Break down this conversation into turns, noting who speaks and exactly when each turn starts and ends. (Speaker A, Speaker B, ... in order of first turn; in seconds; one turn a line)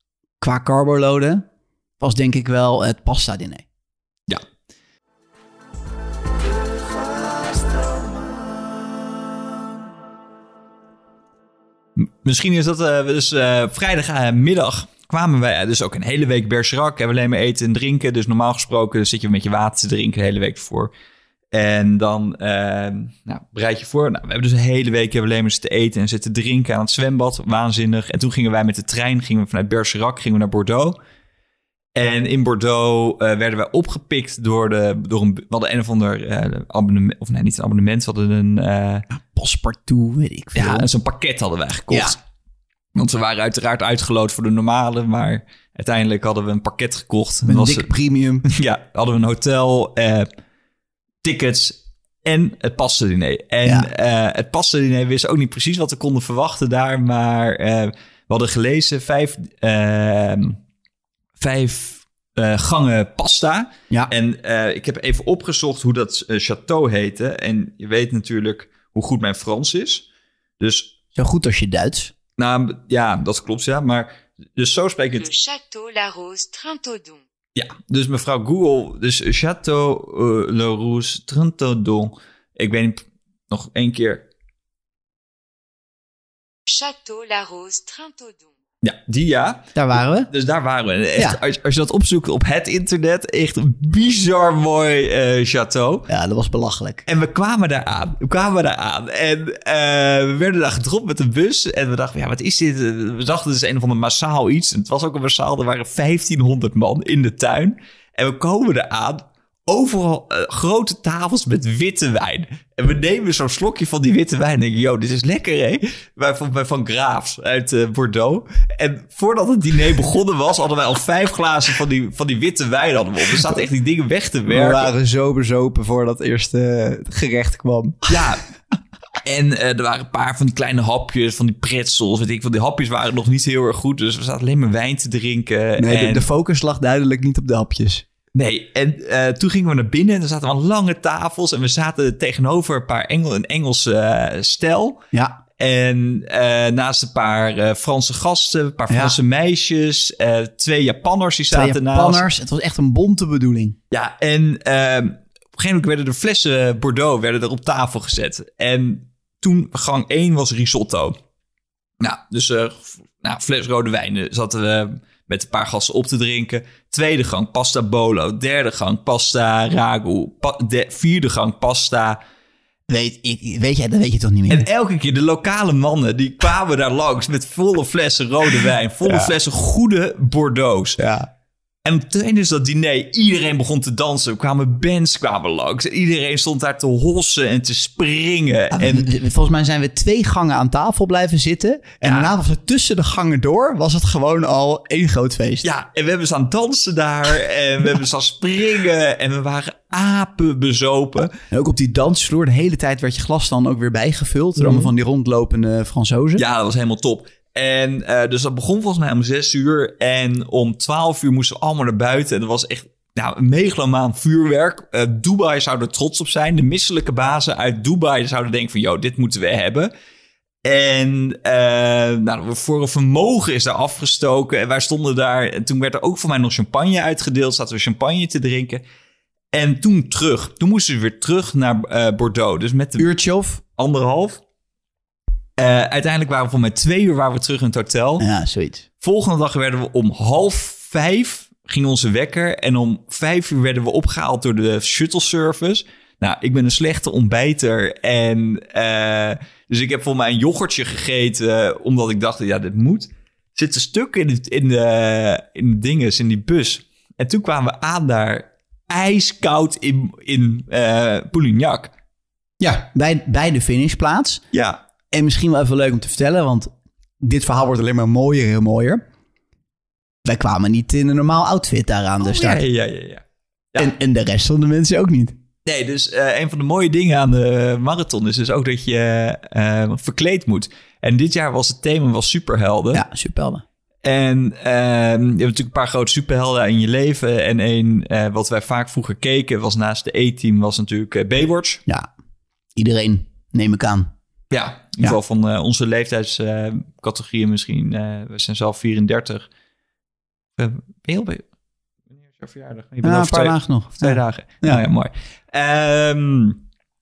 Speaker A: 0.4-1.4
Speaker A: 2.0-3.6
Speaker B: 12.0-20.9
Speaker B: 21.5-31.0
Speaker B: 31.9-39.1
Speaker A: 39.1-40.9
Speaker B: 40.5-42.2
Speaker A: 41.9-42.2
Speaker B: 42.9-47.9
Speaker A: 47.5-48.5
Speaker B: 48.5-50.3
Speaker B: 51.2-60.6
Speaker B: 61.4-70.1
Speaker B: 70.6-70.9
Speaker A: 71.2-72.1
Speaker B: 72.4-75.3
Speaker C: 75.2-77.2
Speaker B: 77.5-84.3
Speaker C: 86.7-88.5
Speaker B: 88.8-89.7
Speaker A: 89.8-90.3
Speaker B: 90.3-96.1
Speaker A: 96.1-97.0
Speaker B: 97.1-124.9
Speaker A: 124.5-128.2
Speaker B: 128.1-128.4
Speaker B: 129.2-136.3
Speaker A: 135.8-138.1
Speaker B: 138.3-145.0
Speaker A: 145.1-145.4
Speaker B: 145.6-152.2
Speaker A: 148.9-149.2
Speaker A: 151.5-153.8
Speaker B: 153.9-161.2
Speaker B: 162.0-172.2
Speaker A: 172.9-174.7
Speaker B: 174.5-181.0
Speaker A: 181.0-181.3
Speaker B: 181.8-189.1
Speaker A: 188.7-195.7
Speaker B: 192.0-192.3
Speaker B: 195.6-201.3
Speaker A: 201.5-206.4
Speaker B: 204.6-204.9
Speaker B: 206.4-219.9
Speaker B: 220.6-228.8
Speaker B: 229.5-233.1
Speaker A: 233.0-233.6
Speaker B: 233.8-234.4
Speaker B: 235.6-238.2
Speaker A: 238.2-238.9
Speaker B: 239.0-261.9
Speaker A: 262.6-264.4
Speaker B: 264.5-264.8
Speaker A: 265.1-269.0
Speaker A: 270.2-272.6
Speaker B: 272.2-273.9
Speaker A: 273.8-275.4
Speaker B: 275.6-283.0
Speaker A: 282.9-283.6
Speaker B: 284.0-291.8
Speaker A: 292.8-294.1
Speaker B: 294.5-299.5
Speaker B: 300.6-301.4
Speaker B: 302.1-306.6
Speaker A: 303.0-304.8